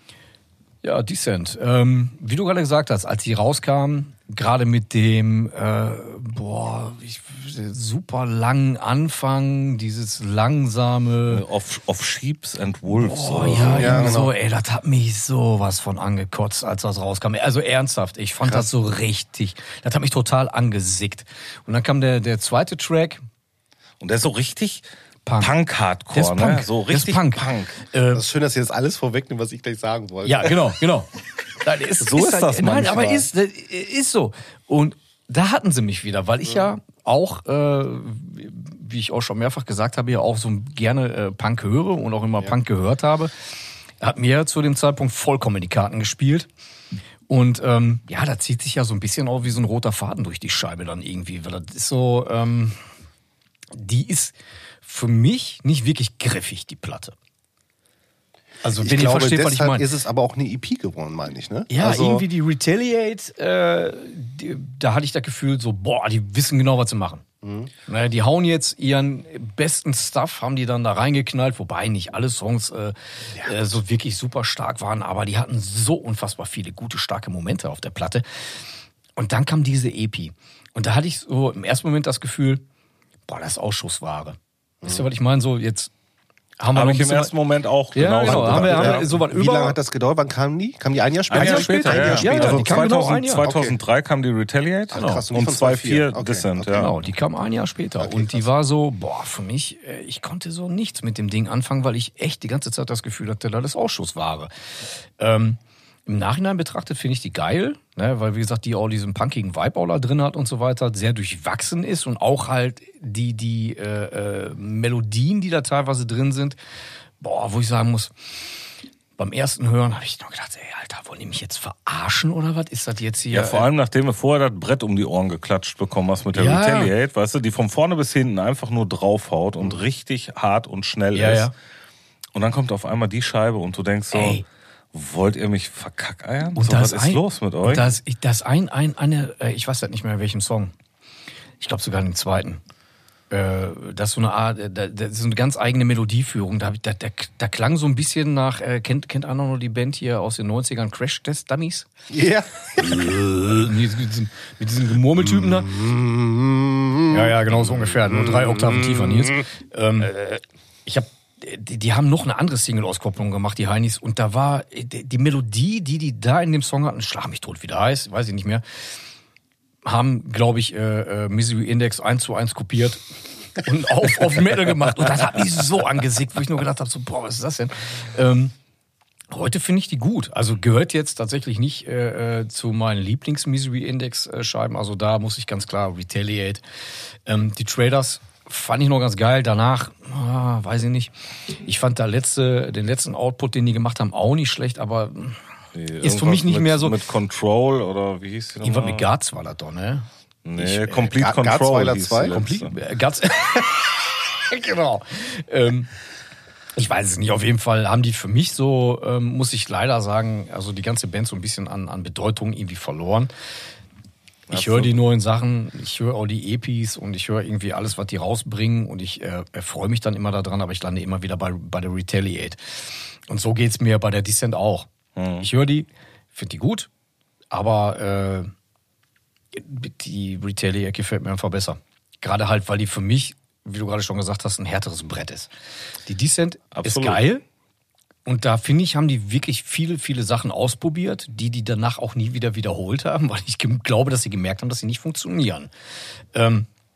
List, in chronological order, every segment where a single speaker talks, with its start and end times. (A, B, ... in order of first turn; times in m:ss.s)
0:00.8-0:11.4 A
0:11.3-0:14.2 B
0:12.9-0:23.2 A
0:13.5-0:14.3 C
0:18.4-0:18.7 C
0:24.0-0:24.9 B
0:25.2-0:25.5 A
0:25.4-0:27.8 B
0:26.1-0:28.3 A
0:28.1-0:30.8 C
0:30.2-0:43.3 A
0:32.0-0:33.3 B
0:44.0-0:46.5 A
0:47.3-0:52.8 A
0:53.7-0:57.2 A
0:58.6-0:59.9 A
0:58.7-1:02.3 C
1:01.7-1:07.2 A
1:07.4-1:07.7 C
1:07.9-1:18.2 A
1:13.3-1:13.8 C
1:19.2-1:22.6 A
1:23.3-1:25.9 A
1:26.6-1:27.3 A
1:26.7-1:29.2 B
1:27.9-1:29.8 A
1:28.2-1:33.8 C
1:31.3-1:36.9 B
1:31.3-1:33.5 A
1:34.9-1:36.9 C
1:34.9-1:35.2 A
1:36.7-1:44.5 A
1:38.0-1:38.5 C
1:45.2-1:56.6 A
1:57.2-1:58.1 A
1:59.2-2:03.7 A
2:03.3-2:11.5 B
2:06.3-2:06.9 A
2:11.1-2:11.5 A
2:12.3-2:14.4 B
2:14.1-2:14.4 A
2:14.9-2:17.9 B
2:16.5-2:20.7 A
2:21.6-2:22.6 A
2:23.3-2:31.9 A
2:32.1-2:33.2 C
2:32.8-2:35.8 A
2:35.2-2:39.5 C
2:37.1-2:48.6 A
2:49.8-2:53.0 A
2:53.6-2:58.5 A
2:59.3-3:06.6 A
3:07.3-3:15.4 A
3:15.7-3:19.1 B
3:16.0-3:17.0 A
3:18.6-3:20.1 A
3:20.4-3:22.8 B
3:20.6-3:21.1 A
3:21.1-3:22.4 C
3:22.3-3:25.9 A
3:26.8-3:33.3 A
3:34.5-3:35.0 B
3:34.5-3:42.6 A
3:43.3-3:44.9 A
3:45.2-3:45.5 B
3:45.4-3:46.9 A
3:47.5-3:48.5 A
3:49.5-3:55.5 A
3:56.1-3:57.4 A
3:56.7-3:57.2 B
3:58.3-4:05.7 A
4:06.3-4:06.7 A